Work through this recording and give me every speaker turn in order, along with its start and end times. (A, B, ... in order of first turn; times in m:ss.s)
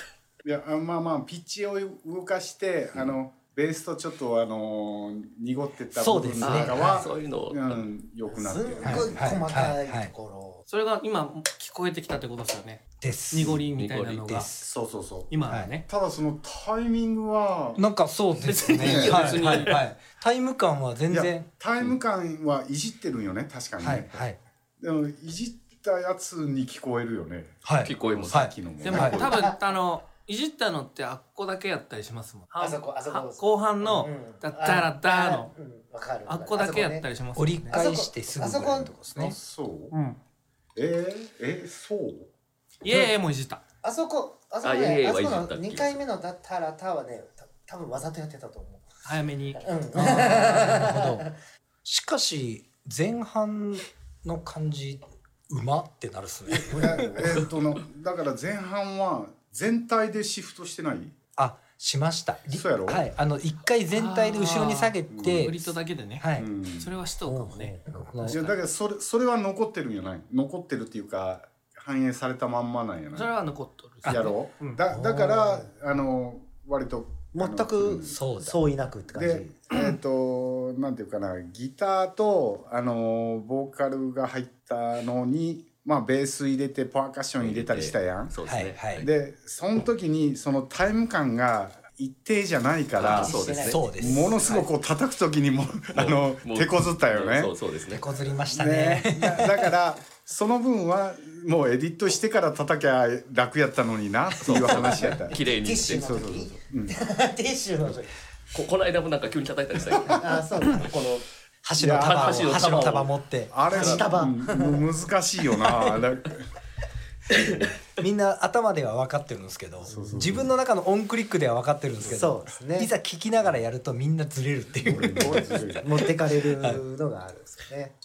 0:00.4-0:09.2 A
0:05.9-0:07.0 B
0:06.4-0:07.9 C
0:08.3-0:10.6 D
0:08.8-0:10.1 B
0:10.7-0:14.5 E
0:13.0-0:13.6 B
0:13.7-0:14.3 C
0:14.3-0:14.6 B
0:14.7-0:15.3 A
0:15.3-0:15.8 E
0:15.5-0:15.7 B
0:15.8-0:17.8 A
0:17.8-0:21.5 B
0:18.5-0:19.9 E
0:18.8-0:19.6 A
0:19.0-0:19.5 C
0:21.1-0:24.2 A
0:23.8-0:24.4 B
0:24.8-0:29.1 A
0:27.6-0:29.2 B
0:27.8-0:29.3 C
0:28.8-0:35.5 E
0:28.8-0:29.6 D
0:32.6-0:37.0 D
0:36.3-0:37.8 E
0:37.4-0:39.4 B
0:37.7-0:39.0 D
0:39.1-0:39.9 A
0:39.9-0:40.2 E
0:40.7-0:42.3 A
0:42.8-0:43.6 E
0:43.8-0:48.9 D
0:44.6-0:46.0 C
0:49.0-0:50.9 E
0:49.6-0:51.2 D
0:50.1-0:51.3 B
0:51.8-0:57.1 B
0:56.5-0:57.5 D
0:56.8-1:01.1 A
1:01.4-1:06.5 B
1:02.5-1:03.0 A
1:03.9-1:06.3 E
1:05.1-1:05.4 A
1:06.4-1:06.9 A
1:06.8-1:08.6 E
1:07.2-1:08.3 D
1:08.0-1:08.4 B
1:08.3-1:13.3 A
1:13.1-1:14.8 E
1:14.0-1:14.4 B
1:14.1-1:18.1 A
1:14.9-1:15.7 D
1:17.3-1:19.9 D
1:18.0-1:18.6 B
1:19.2-1:28.4 A
1:27.4-1:29.1 C
1:28.4-1:29.1 B
1:29.0-1:33.3 A
1:33.0-1:33.8 C
1:33.0-1:34.8 D
1:33.6-1:34.4 B
1:34.0-1:37.5 A
1:35.9-1:38.0 C
1:37.9-1:39.8 B
1:38.5-1:45.4 A
1:44.4-1:46.1 C
1:44.6-1:48.1 D
1:46.1-1:46.9 A
1:48.5-1:51.2 C
1:50.1-1:51.0 D
1:51.6-1:53.5 B
1:51.8-1:52.4 A
1:51.9-1:54.1 C
1:53.5-1:56.5 A
1:53.7-1:55.0 D
1:55.5-1:56.0 D
1:58.0-2:06.8 B
1:59.8-2:00.4 D
1:59.9-2:00.5 A
2:02.0-2:02.9 D
2:04.8-2:05.9 A
2:05.3-2:07.9 D